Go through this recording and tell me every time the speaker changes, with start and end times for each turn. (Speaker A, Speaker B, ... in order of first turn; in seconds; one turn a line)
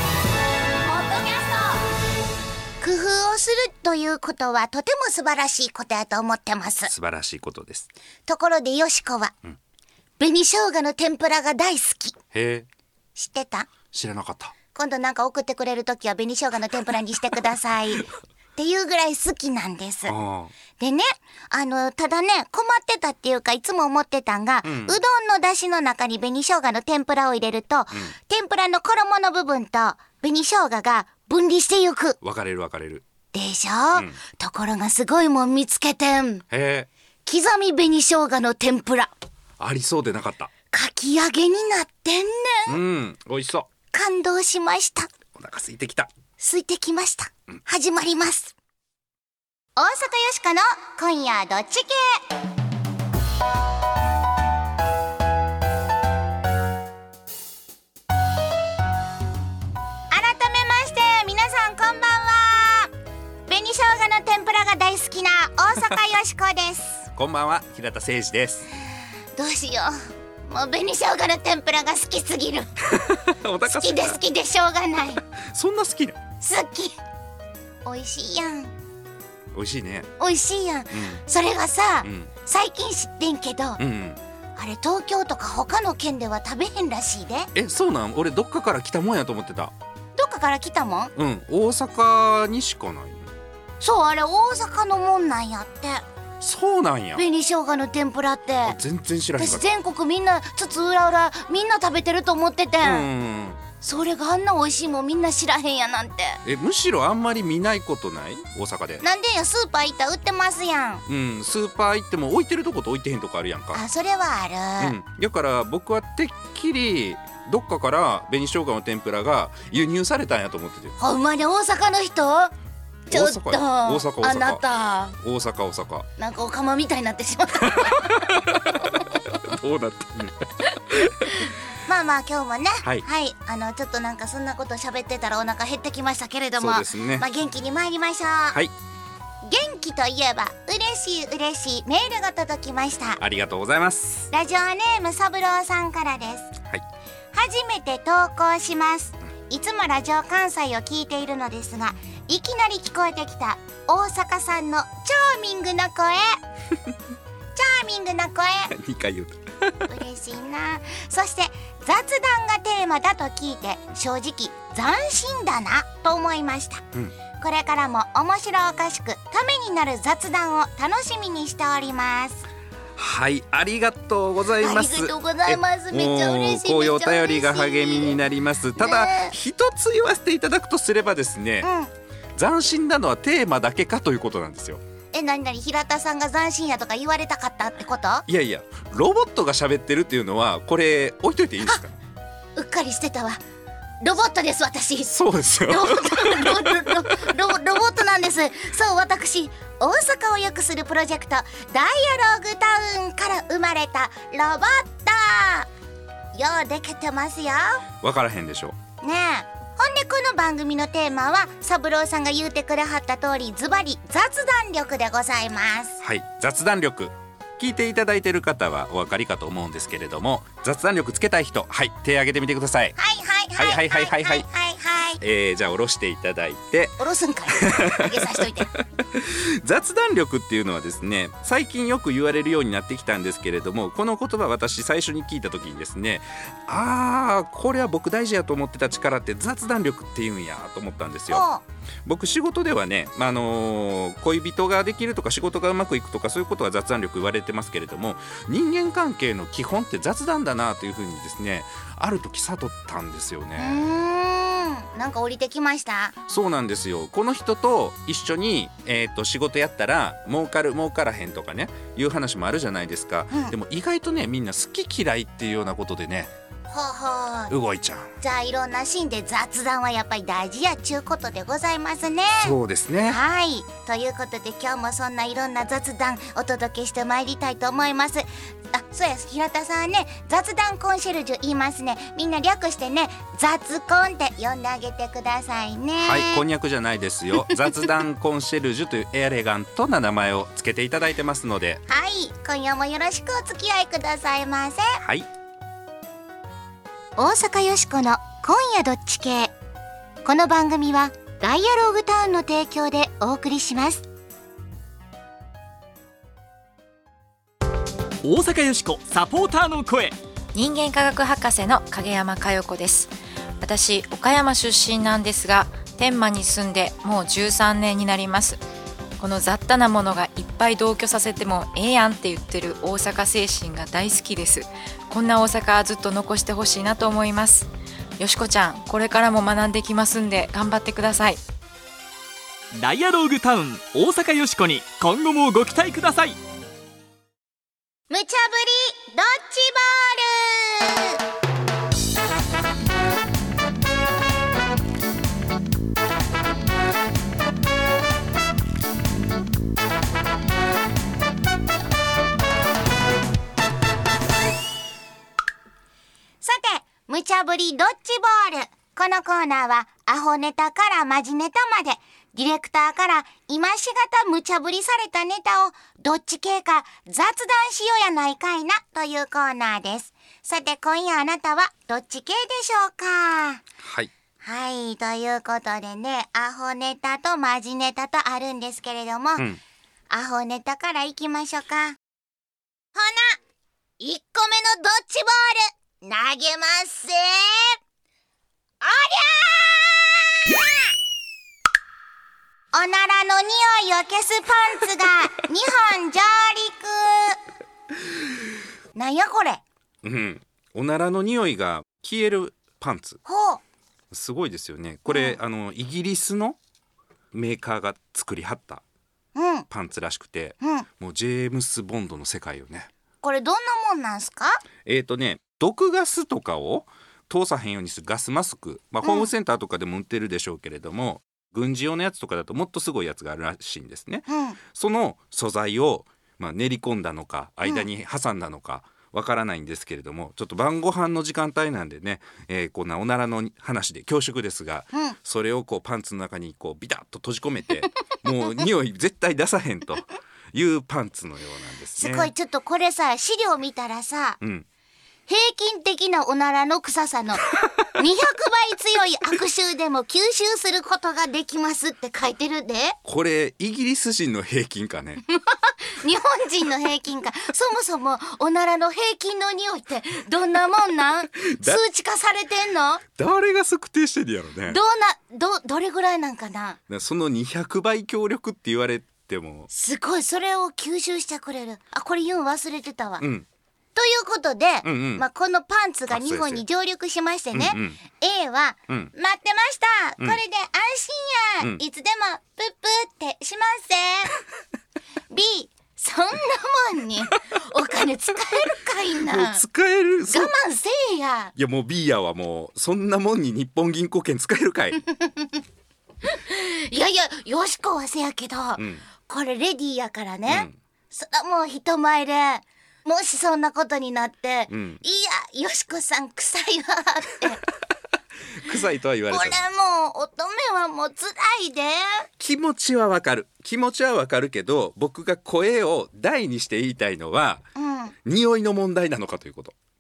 Speaker A: 0.8-1.8
Speaker A: 2.8-6.9
Speaker B: 6.9-7.9
Speaker A: 8.3-9.3
Speaker A: 10.2-12.2
Speaker B: 12.3-12.7
Speaker A: 13.2-13.7
Speaker B: 13.9-14.6
Speaker A: 14.7-20.1
Speaker B: 20.1-20.5
Speaker A: 20.8-32.2
Speaker B: 24.6-25.0
Speaker B: 32.2-33.0
Speaker A: 33.3-36.4
Speaker B: 36.5-36.9
Speaker A: 37.3-39.1
Speaker B: 39.6-40.5
Speaker A: 40.7-42.8
Speaker B: 42.7-43.7
Speaker A: 43.9-45.1
Speaker B: 45.3-46.1
Speaker A: 46.4-48.5
Speaker A: 49.8-52.2
Speaker A: 60.1-62.9
Speaker A: 63.5-67.1
Speaker B: 67.2-68.7
Speaker A: 69.4-72.8
Speaker B: 72.9-74.2
Speaker A: 73.7-75.2
Speaker B: 75.3-76.2
Speaker A: 76.4-77.0
Speaker A: 77.8-78.7
Speaker B: 79.5-80.1
Speaker A: 80.2-83.8
Speaker B: 80.9-81.2
Speaker B: 82.0-82.3
Speaker B: 83.8-84.2
Speaker A: 84.6-87.5
Speaker B: 87.5-89.7
Speaker A: 90.2-91.1
Speaker B: 91.2-93.3
Speaker A: 93.8-96.0
Speaker B: 96.4-97.2
Speaker A: 97.2-98.8
Speaker B: 98.7-99.7
Speaker A: 99.4-103.1
Speaker B: 102.8-103.6
Speaker A: 103.8-106.4
Speaker B: 106.5-109.0
Speaker A: 109.0-111.0
Speaker B: 111.1-113.8
Speaker A: 113.7-115.0
Speaker B: 114.8-121.0
Speaker A: 121.0-122.5
Speaker A: 123.1-125.2
Speaker B: 123.1-124.6
Speaker B: 125.2-126.1
Speaker A: 126.2-128.1
Speaker B: 127.8-131.5
Speaker A: 131.8-138.6
Speaker B: 136.6-137.2
Speaker A: 139.4-143.2
Speaker B: 143.2-144.3
Speaker A: 144.3-146.5
Speaker A: 147.3-156.4
Speaker A: 157.6-158.7
Speaker B: 158.7-159.9
Speaker A: 159.9-166.8
Speaker A: 167.4-172.5
Speaker B: 173.0-181.7
Speaker A: 174.6-178.2
Speaker A: 178.8-179.3
Speaker A: 181.6-181.9
Speaker B: 182.4-184.8
Speaker A: 185.1-188.2
Speaker B: 188.3-192.0
Speaker A: 192.6-193.4
Speaker A: 194.0-195.1
Speaker B: 195.1-197.2
Speaker A: 195.7-205.7
Speaker A: 206.3-207.8
Speaker B: 208.0-208.8
Speaker A: 209.0-216.0
Speaker B: 216.0-222.9
Speaker A: 223.0-225.2
Speaker B: 223.6-224.4
Speaker B: 225.2-227.0
Speaker A: 227.0-228.7
Speaker B: 227.5-241.4
Speaker A: 241.3-241.6
Speaker B: 242.1-253.8
Speaker A: 253.6-256.1
Speaker B: 256.3-266.3
Speaker A: 266.7-267.5
Speaker B: 267.5-268.1
Speaker A: 268.2-272.6
Speaker B: 272.4-273.2
Speaker A: 273.1-286.4
Speaker B: 286.0-291.8
Speaker A: 291.9-295.0
Speaker B: 295.0-295.3
Speaker A: 297.2-299.5
Speaker A: 300.2-304.1
Speaker C: 308.2-310.2
Speaker D: 310.6-318.6
Speaker D: 319.2-327.7
Speaker D: 328.2-331.4
Speaker C: 332.7-336.4
Speaker A: 338.1-341.2
Speaker A: 356.4-373.6
Speaker B: 373.8-374.1
Speaker A: 374.4-379.5
Speaker A: 380.1-382.0
Speaker A: 382.9-383.4
Speaker A: 384.0-387.8
Speaker A: 388.8-390.5
Speaker A: 392.7-397.4
Speaker A: 398.9-399.6
Speaker B: 400.0-403.2
Speaker A: 403.2-403.6
Speaker B: 404.1-406.6
Speaker A: 405.1-405.4
Speaker B: 407.3-408.8
Speaker A: 409.4-409.7
Speaker B: 409.7-412.9
Speaker A: 410.6-410.9
Speaker A: 413.2-414.6
Speaker B: 414.9-442.3
Speaker A: 419.0-419.3
Speaker A: 424.3-424.6
Speaker A: 442.0-444.4
Speaker B: 444.4-444.7
Speaker A: 445.3-453.0
Speaker B: 453.1-455.2
Speaker A: 455.3-463.0
Speaker B: 463.1-464.8
Speaker A: 464.7-466.8
Speaker B: 466.9-469.7
Speaker A: 469.7-473.3
Speaker B: 473.2-473.5
Speaker A: 473.9-484.4
Speaker B: 474.8-475.2
Speaker B: 476.1-476.6
Speaker B: 477.5-478.0
Speaker A: 485.3-489.6
Speaker B: 489.3-490.5
Speaker A: 490.3-491.5
Speaker B: 491.6-495.0
Speaker A: 495.1-495.5
Speaker A: 496.3-507.6
Speaker B: 498.8-499.1
Speaker B: 500.5-500.8
Speaker B: 504.7-505.0
Speaker B: 508.5-509.6
Speaker A: 509.3-512.3
Speaker B: 512.4-517.7
Speaker A: 517.8-518.1
Speaker B: 518.2-519.8